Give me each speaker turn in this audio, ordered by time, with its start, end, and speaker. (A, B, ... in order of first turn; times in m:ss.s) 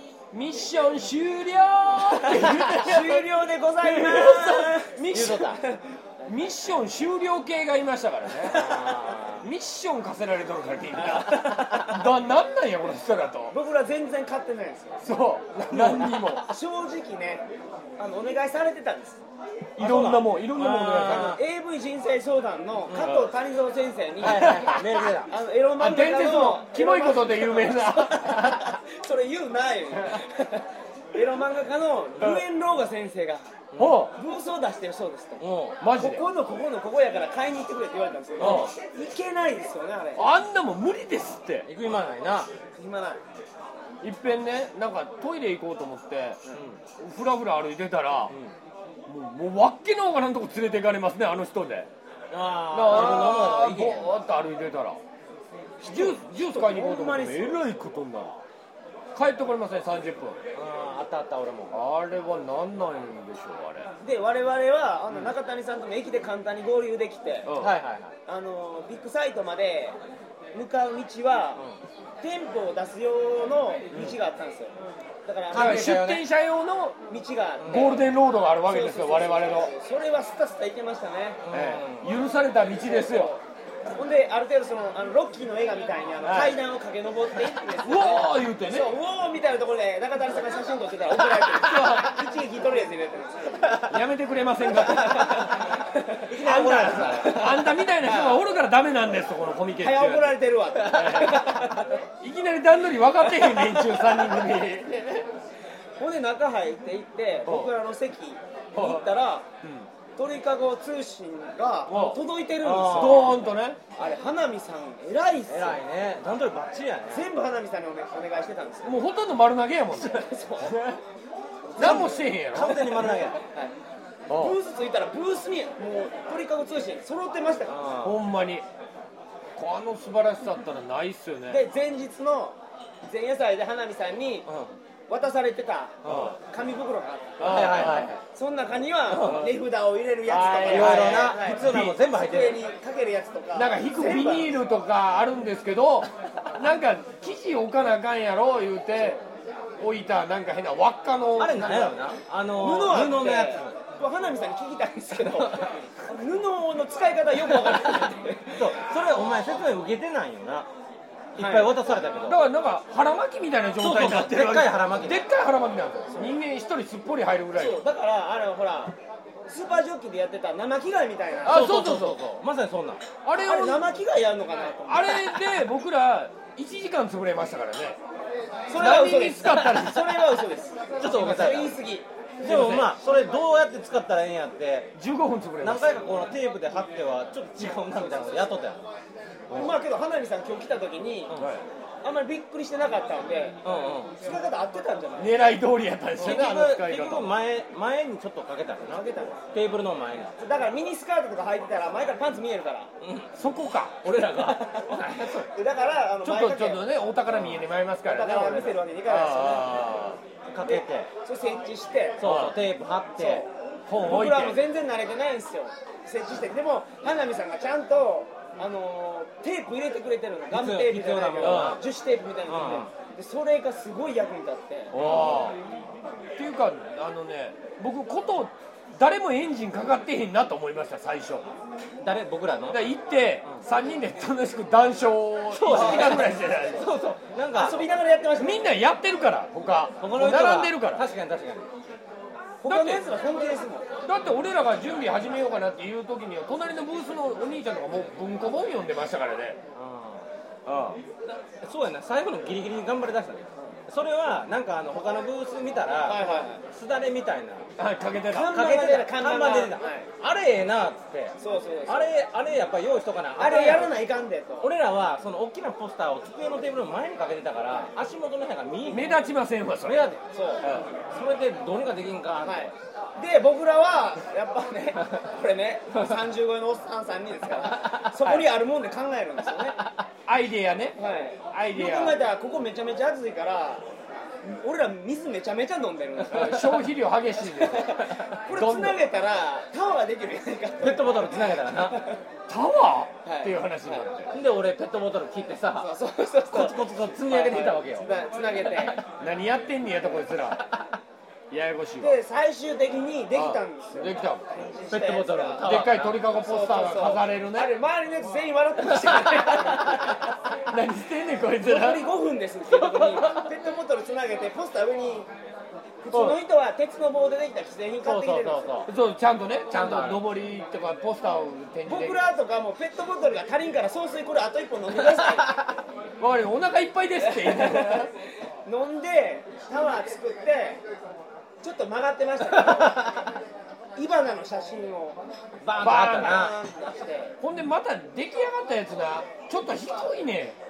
0:00.3-0:05.6 A
0:02.7-0:05.0 B
0:05.1-0:05.6 C
0:06.2-0:08.7 A
0:08.4-0:09.5 C
0:09.4-0:13.5 A
0:11.4-0:11.8 C
0:13.5-0:15.0 B
0:15.0-0:16.4 A
0:15.6-0:16.4 C
0:16.4-0:17.4 B
0:18.0-0:19.2 B
0:19.8-0:21.4 A
0:19.8-0:21.4 C
0:21.2-0:33.5 B
0:22.9-0:23.2 C
0:24.2-0:25.3 C
0:24.2-0:24.8 A
0:25.8-0:28.7 A
0:33.7-0:34.0 C
0:33.8-0:34.1 A
0:34.1-0:40.3 B
0:35.4-0:35.8 C
0:35.8-0:36.2 A
0:38.4-0:38.7 C
0:38.4-0:38.7 A
0:40.2-0:41.7 A
0:41.6-0:42.5 C
0:42.7-0:43.2 B
0:44.0-0:46.4 A
0:46.5-0:46.8 C
0:47.0-0:48.4 A
0:48.3-0:48.5 C
0:49.1-0:51.9 A
0:52.3-0:54.1 C
0:52.7-0:55.0 A
0:55.8-0:57.7 B
0:55.8-0:58.4 A
0:59.1-1:00.4 A
1:00.5-1:01.7 C
1:01.7-1:03.9 A
1:04.0-1:07.5 B
1:07.4-1:07.7 A
1:07.6-1:08.1 C
1:08.3-1:10.0 B
1:10.5-1:11.6 B
1:12.2-1:15.9 B
1:15.5-1:16.2 C
1:15.5-1:17.0 A
1:17.1-1:18.0 B
1:17.6-1:18.0 C
1:17.7-1:19.7 A
1:18.6-1:21.4 B
1:21.4-1:22.1 C
1:21.5-1:23.3 A
1:22.8-1:33.8 B
1:26.2-1:26.6 A
1:27.8-1:28.9 A
1:31.5-1:32.1 A
1:33.9-1:35.6 A
1:34.6-1:38.4 B
1:36.3-1:37.5 C
1:36.4-1:41.7 A
1:39.8-1:42.0 B
1:42.2-1:45.3 A
1:46.0-1:49.5 B
1:47.4-1:47.7 A
1:48.7-1:49.1 A
1:49.6-1:49.9 A
1:50.2-1:53.4 B
1:51.9-1:52.2 A
1:52.6-1:53.4 C
1:52.8-1:53.8 A
1:54.0-1:55.8 B
1:55.5-1:57.3 C
1:57.1-1:59.0 B
1:58.8-2:01.0 A
2:00.0-2:00.8 B
2:01.7-2:03.7 B
2:01.8-2:03.4 C
2:01.8-2:03.1 A
2:04.3-2:04.6 A
2:04.3-2:07.8 B
2:07.7-2:08.2 C
2:08.0-2:08.6 A
2:09.6-2:11.6 A
2:11.5-2:14.5 B
2:14.5-2:14.7 C
2:15.1-2:24.6 B
2:16.0-2:16.3 C
2:16.1-2:16.3 A
2:17.4-2:18.1 A
2:17.4-2:18.2 C
2:19.1-2:19.5 C
2:19.2-2:19.5 A
2:20.3-2:22.0 A
2:20.7-2:22.6 C
2:23.5-2:29.2 A
2:29.8-2:31.9 A
2:31.4-2:33.8 C
2:32.6-2:38.7 B
2:35.2-2:35.7 C
2:38.5-2:40.7 C
2:41.4-2:42.4 C
2:41.4-2:41.8 B
2:42.2-2:47.8 A
2:43.8-2:45.3 C
2:47.5-2:48.9 B
2:49.5-2:51.6 B
2:51.4-2:52.2 A
2:51.4-2:53.0 C
2:53.2-2:53.9 A
2:53.4-2:55.3 B
2:54.9-2:58.0 A
2:58.7-3:02.0 B
2:58.7-3:00.3 A
3:01.0-3:01.8 C
3:02.4-3:02.9 A
3:02.4-3:04.9 C
3:04.9-3:06.0 A
3:05.6-3:08.8 C
3:09.5-3:11.3 B
3:11.3-3:11.6 A
3:12.0-3:13.6 B
3:13.6-3:14.1 C
3:14.2-3:15.4 B
3:15.2-3:17.3 A
3:16.2-3:20.3 C
3:18.9-3:19.4 B
3:20.4-3:22.9 B
3:23.0-3:23.3 C
3:23.3-3:24.1 A
3:24.0-3:25.5 C
3:24.6-3:26.9 B
3:26.2-3:30.2 A
3:27.3-3:27.6 C
3:28.0-3:29.8 B
3:30.5-3:31.1 C
3:30.6-3:32.2 B
3:32.2-3:33.4 C
3:32.2-3:32.6 A
3:33.2-3:33.5 B
3:33.9-3:34.6 A
3:34.0-3:44.9 B
3:40.5-3:41.8 C
3:41.4-3:41.8 A
3:42.4-3:42.9 C
3:44.9-3:45.5 C
3:44.9-3:45.6 A
3:46.4-3:51.5 A
3:52.0-3:52.9 C
3:52.7-3:56.9 A
3:55.5-3:57.8 C
3:55.7-3:56.3 B
3:57.6-3:58.7 B
3:58.4-4:01.0 A
4:00.0-4:01.7 C
4:02.6-4:03.9 B
4:02.6-4:03.0 A
4:04.0-4:09.6 A
4:09.7-4:10.2 C
4:10.7-4:11.0 A
4:11.6-4:17.7 C
4:16.0-4:16.6 B
4:17.8-4:18.6 A
4:18.3-4:20.1 B
4:18.4-4:24.0 C
4:21.4-4:22.1 B
4:23.4-4:24.7 B
4:24.6-4:29.2 C
4:28.9-4:30.8 A
4:29.8-4:32.7 C
4:30.3-4:30.8 B
4:32.4-4:39.8 B
4:37.8-4:38.3 C
4:40.2-4:41.0 A
4:41.0-4:43.8 B
4:41.5-4:42.2 A
4:44.4-4:46.8 B
4:46.3-4:49.0 A
4:47.6-4:52.2 B
4:50.8-4:52.0 C
4:52.5-4:54.3 A
4:53.2-4:54.1 B
4:54.3-4:55.9 C
4:55.8-4:59.0 B
4:56.5-4:58.1 C
4:59.2-5:00.6 A
5:01.5-5:02.2 A
5:02.0-5:10.3 B
5:03.3-5:04.5 A
5:04.9-5:06.3 C
5:05.6-5:07.8 A
5:10.7-5:12.0 A
5:11.6-5:15.3 B
5:12.7-5:13.5 C
5:16.0-5:18.8 B
5:16.1-5:16.4 A
5:18.0-5:18.9 C
5:18.9-5:22.2 A
5:19.7-5:20.2 C
5:21.8-5:25.6 B
5:26.2-5:28.1 A
5:27.2-5:28.1 B
5:28.6-5:30.8 B
5:31.6-5:33.1 B
5:32.6-5:33.2 C
5:34.0-5:35.2 B
5:35.6-5:36.6 C
5:35.8-5:36.5 A
5:35.9-5:37.4 B
5:37.4-5:40.6 A